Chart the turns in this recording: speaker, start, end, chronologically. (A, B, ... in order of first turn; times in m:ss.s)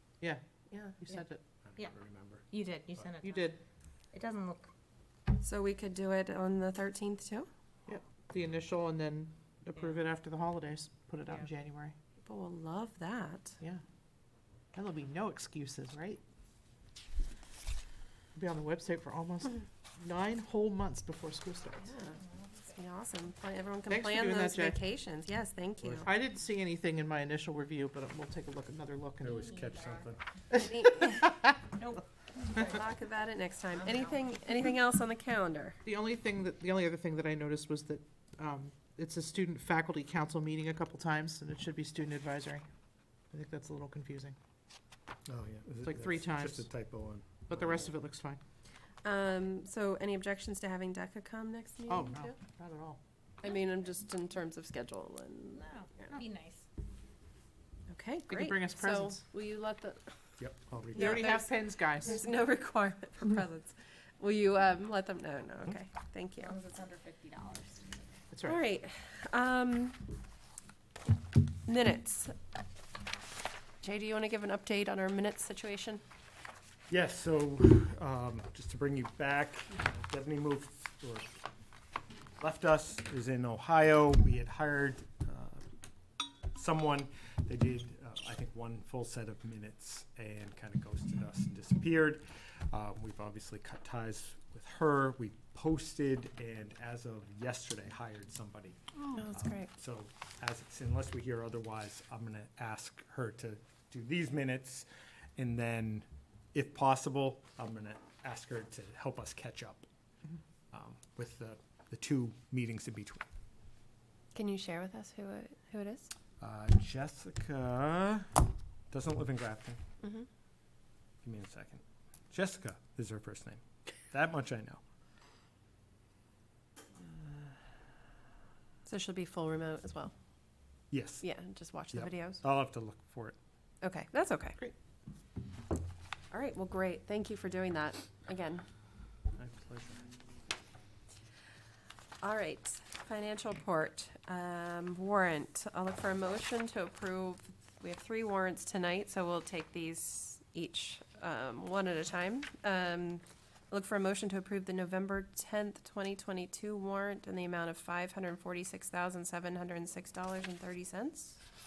0:00.7-0:01.0 A
0:01.0-0:01.4 B
0:01.7-0:02.5 C
0:02.5-0:03.5 D
0:03.2-0:03.6 B
0:04.1-0:04.7 D
0:05.4-0:07.5 A
0:07.9-0:12.0 B
0:12.2-0:13.6 A
0:14.7-0:16.2 B
0:18.3-0:21.9 B
0:21.8-0:26.1 A
0:23.9-0:24.8 B
0:26.0-0:29.5 B
0:29.2-0:30.2 C
0:29.4-0:30.0 D
0:30.5-0:31.4 A
0:31.7-0:32.8 D
0:32.5-0:35.8 A
0:33.8-0:34.1 D
0:35.8-0:42.6 B
0:43.3-0:44.4 B
0:45.3-0:47.6 C
0:45.8-0:46.7 B
0:47.4-0:48.4 B
0:49.0-0:52.4 A
0:51.9-0:53.0 B
0:53.4-0:56.1 A
0:55.5-0:56.7 D
0:57.9-1:00.2 A
0:58.3-0:59.2 B
1:00.4-1:01.2 C
1:00.9-1:02.2 B
1:01.0-1:06.5 A
1:06.4-1:07.8 D
1:08.3-1:08.6 B
1:08.4-1:10.1 A
1:11.7-1:12.4 A
1:13.8-1:16.0 A
1:16.9-1:21.3 C
1:22.4-1:25.6 C
1:26.5-1:38.8 C
1:39.1-1:39.7 A
1:39.3-1:44.8 C
1:45.4-1:49.9 C
1:50.7-1:53.2 C
1:54.3-1:56.1 A
1:56.4-1:59.8 C
2:00.0-2:00.3 A
2:01.2-2:04.8 C
2:07.0-2:07.5 C
2:08.8-2:10.1 A
2:10.9-2:11.3 C
2:11.2-2:12.4 A
2:11.9-2:13.4 C
2:13.8-2:14.6 A
2:16.3-2:18.6 A
2:19.4-2:20.1 C
2:22.2-2:41.4 A